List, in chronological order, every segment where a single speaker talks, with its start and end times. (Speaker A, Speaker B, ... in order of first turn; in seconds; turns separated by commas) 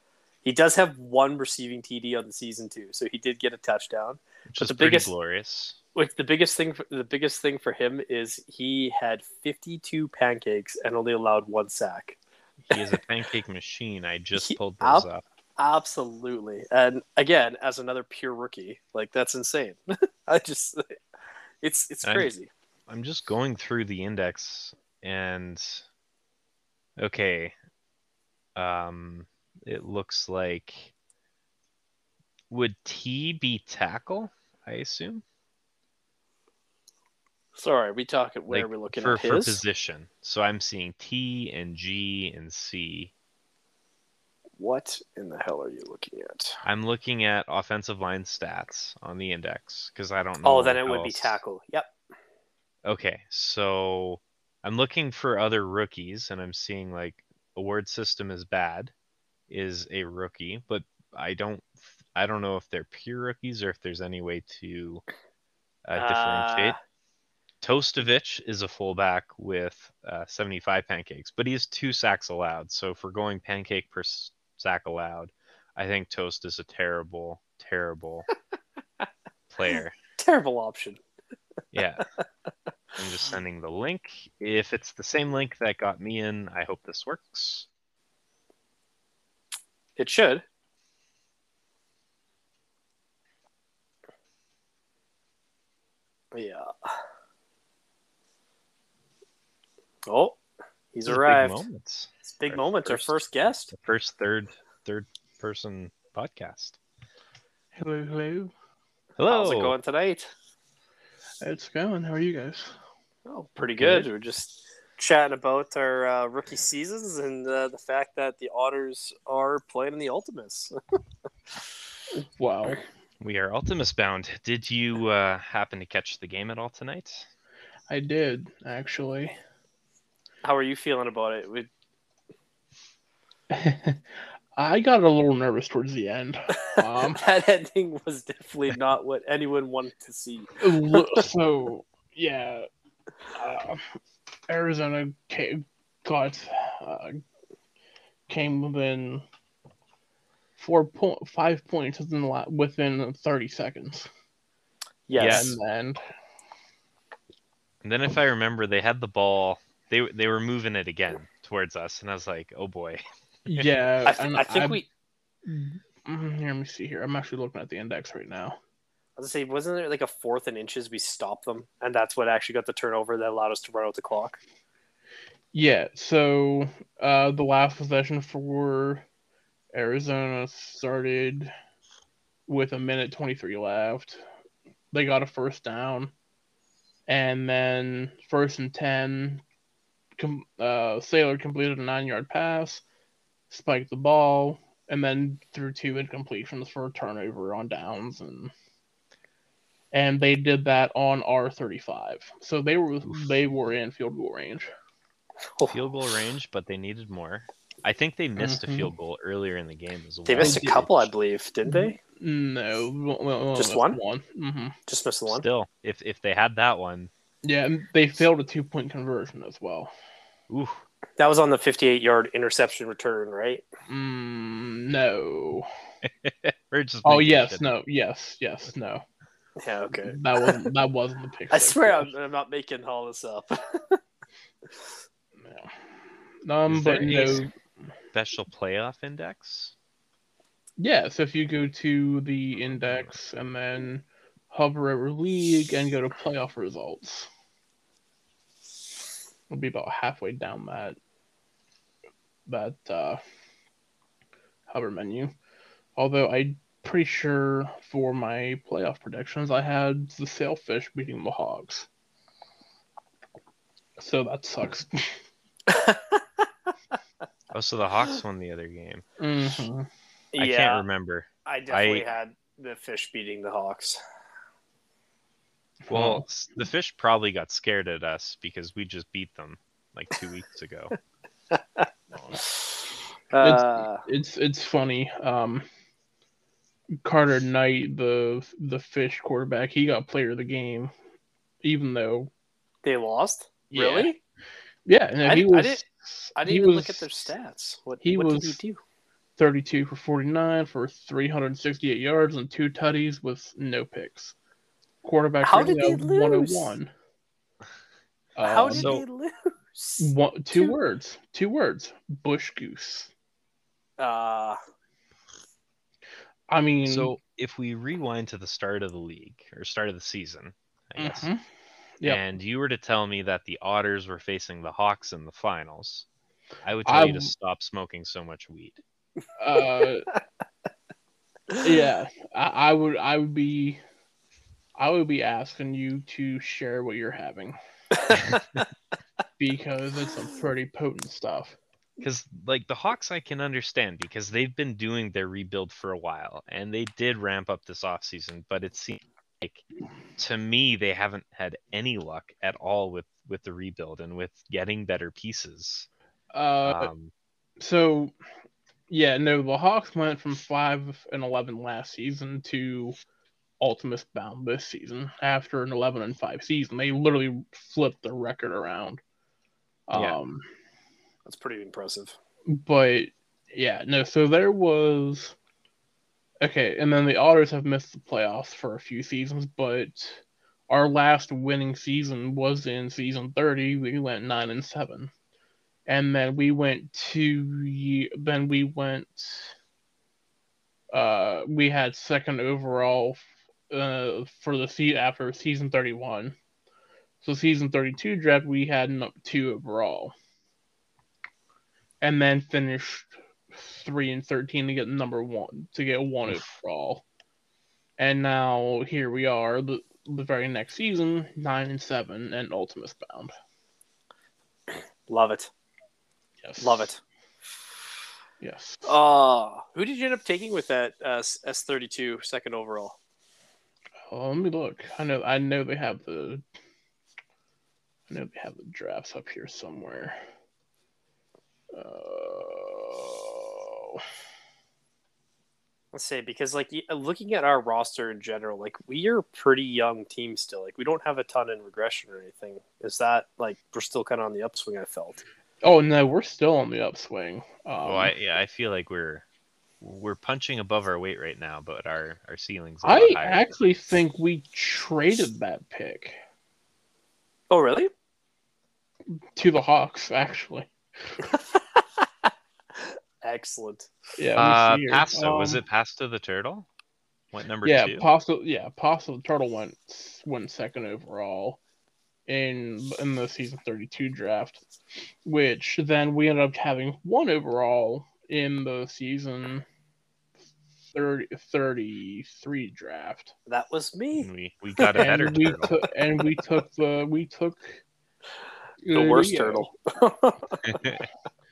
Speaker A: 0.4-5.1, Speaker B: 4.5-5.8, Speaker A: 5.9-12.2, Speaker B: 12.6-15.2, Speaker A: 14.4-15.1, Speaker A: 15.6-20.9, Speaker A: 21.6-22.5, Speaker B: 22.0-22.3, Speaker B: 22.9-25.9, Speaker B: 27.0-27.5, Speaker B: 28.6-30.9, Speaker B: 32.5-35.2, Speaker A: 37.5-39.6, Speaker B: 38.5-43.1, Speaker A: 44.6-46.6, Speaker B: 46.6-51.4, Speaker A: 50.4-51.9, Speaker B: 52.8-58.9, Speaker B: 59.5-65.0, Speaker B: 65.8-66.7, Speaker A: 66.0-66.8, Speaker B: 67.6-78.3, Speaker B: 79.5-80.0, Speaker A: 80.2-81.0, Speaker B: 81.7-82.0, Speaker B: 83.0-87.7, Speaker A: 90.0-90.4, Speaker A: 96.3-97.0, Speaker A: 100.1-100.4, Speaker A: 100.9-101.6, Speaker B: 101.1-103.2, Speaker A: 102.3-103.7, Speaker B: 103.7-106.8, Speaker C: 107.7-108.5, Speaker B: 109.2-109.7, Speaker A: 109.3-110.3, Speaker C: 111.4-112.8, Speaker A: 113.3-120.7, Speaker B: 113.8-114.1, Speaker C: 122.1-122.8, Speaker B: 123.2-127.3, Speaker C: 127.9-129.3, Speaker A: 130.4-131.7, Speaker C: 133.5-134.0, Speaker C: 134.6-137.2, Speaker A: 136.6-141.0, Speaker C: 140.6-142.7, Speaker C: 143.3-143.9, Speaker C: 144.5-147.2, Speaker C: 148.3-149.2, Speaker C: 150.6-154.1, Speaker A: 155.1-155.5, Speaker B: 155.1-155.6, Speaker C: 155.2-156.0, Speaker B: 157.8-163.0, Speaker C: 163.4-164.8, Speaker A: 164.1-164.9, Speaker C: 165.4-168.6, Speaker A: 169.2-174.4, Speaker C: 175.5-179.0, Speaker C: 179.7-181.5, Speaker C: 182.5-184.2, Speaker C: 184.9-186.1, Speaker C: 187.1-189.4, Speaker C: 190.2-192.8, Speaker C: 193.5-198.5, Speaker C: 199.9-204.7, Speaker B: 203.1-203.4, Speaker B: 205.7-211.1, Speaker C: 208.4-208.9, Speaker A: 210.2-212.0, Speaker C: 210.4-210.8, Speaker C: 211.6-214.8, Speaker A: 213.6-214.0, Speaker A: 214.9-215.4, Speaker B: 215.3-217.1, Speaker C: 217.4-219.9, Speaker B: 220.5-220.8, Speaker A: 221.2-223.6, Speaker C: 223.9-225.7, Speaker B: 226.0-227.7, Speaker C: 227.0-229.0, Speaker A: 229.6-230.6, Speaker C: 229.9-232.1, Speaker A: 231.5-234.0, Speaker C: 235.4-235.8, Speaker C: 236.4-237.5, Speaker B: 236.7-237.4, Speaker B: 238.1-239.7, Speaker C: 240.8-247.3, Speaker B: 242.6-243.1, Speaker C: 249.5-251.0, Speaker C: 252.5-253.2, Speaker C: 254.7-255.3, Speaker C: 255.9-261.9, Speaker C: 264.0-265.2, Speaker A: 265.7-266.4, Speaker B: 267.5-269.0, Speaker C: 269.2-269.9, Speaker A: 270.3-270.9, Speaker B: 270.4-272.1, Speaker A: 271.4-274.0, Speaker C: 275.8-276.2, Speaker B: 275.9-280.9, Speaker A: 281.5-281.9, Speaker C: 282.1-282.4, Speaker A: 282.4-284.0, Speaker C: 283.4-285.6, Speaker C: 287.0-290.9, Speaker C: 291.6-292.3, Speaker A: 292.8-294.2, Speaker C: 293.7-294.1, Speaker C: 294.9-297.3, Speaker A: 295.2-295.8, Speaker A: 296.4-298.8, Speaker C: 298.0-298.6, Speaker C: 299.4-304.3, Speaker C: 305.0-306.9, Speaker A: 305.4-306.7, Speaker C: 308.4-308.9, Speaker A: 308.4-310.8, Speaker B: 308.8-309.0, Speaker C: 310.0-313.1, Speaker A: 314.0-314.6, Speaker C: 316.5-317.1, Speaker B: 316.8-321.3, Speaker C: 321.0-321.4, Speaker B: 322.0-326.1, Speaker B: 326.6-328.8, Speaker C: 326.9-327.3, Speaker C: 329.4-330.1, Speaker C: 331.6-333.8, Speaker C: 334.8-337.6, Speaker A: 337.9-338.6, Speaker B: 338.1-338.4, Speaker C: 339.4-341.6, Speaker B: 342.0-349.6, Speaker B: 350.2-355.9, Speaker C: 356.3-356.9, Speaker B: 356.6-357.1, Speaker C: 357.6-358.1, Speaker C: 358.9-363.0, Speaker C: 363.6-369.0, Speaker C: 369.9-370.4, Speaker A: 371.2-372.1, Speaker C: 372.5-375.4, Speaker C: 376.4-385.1, Speaker C: 385.9-389.5, Speaker C: 390.9-396.4, Speaker C: 397.2-400.1, Speaker C: 402.0-407.0, Speaker C: 408.0-413.3, Speaker A: 415.1-415.5, Speaker C: 416.4-416.9, Speaker A: 416.6-417.0, Speaker C: 418.4-418.8, Speaker A: 418.8-423.0, Speaker C: 424.1-426.4, Speaker C: 428.1-430.2, Speaker C: 431.7-434.0, Speaker A: 435.9-445.2, Speaker C: 445.6-448.1, Speaker B: 447.8-449.2, Speaker B: 449.8-453.4, Speaker C: 452.8-456.2, Speaker A: 457.5-457.9, Speaker C: 459.1-461.2, Speaker A: 461.3-461.8, Speaker A: 462.8-463.9, Speaker C: 464.2-465.6, Speaker B: 464.4-466.7, Speaker B: 467.3-468.1, Speaker C: 467.6-471.6, Speaker C: 472.3-474.6, Speaker C: 475.2-479.6, Speaker C: 480.9-483.3, Speaker A: 483.5-484.3, Speaker B: 484.2-485.8, Speaker C: 484.9-487.8, Speaker C: 488.8-489.7, Speaker A: 488.9-490.6, Speaker B: 490.6-491.0